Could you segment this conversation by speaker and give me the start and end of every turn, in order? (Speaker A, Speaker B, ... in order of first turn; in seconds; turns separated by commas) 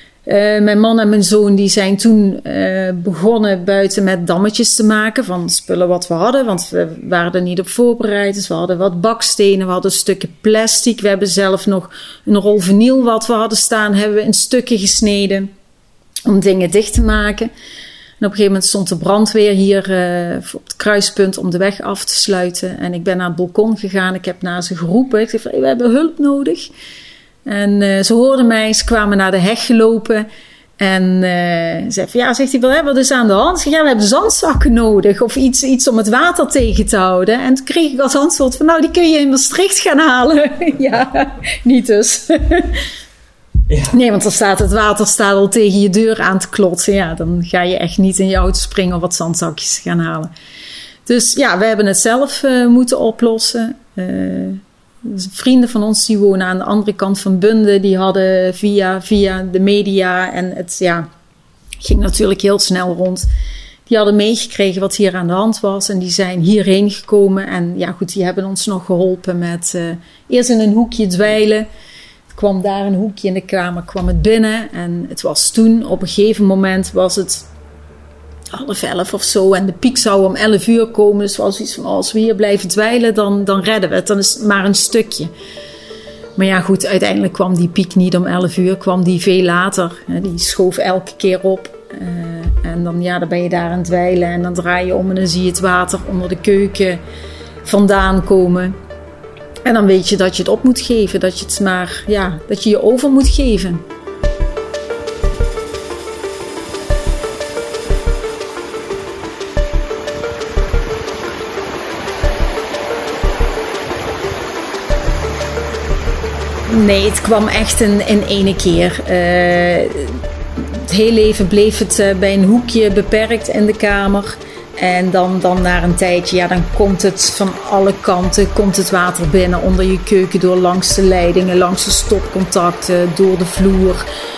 Speaker A: 0.3-15.5, Speaker A: 16.3-17.5, Speaker A: 18.2-26.7, Speaker A: 27.5-30.3, Speaker A: 30.8-42.8, Speaker A: 43.8-50.3, Speaker A: 51.1-61.1, Speaker A: 61.8-63.3, Speaker A: 63.9-71.7, Speaker A: 72.3-77.5, Speaker A: 78.5-85.3, Speaker A: 86.4-97.0, Speaker A: 97.7-98.8, Speaker A: 99.7-103.8, Speaker A: 116.7-134.1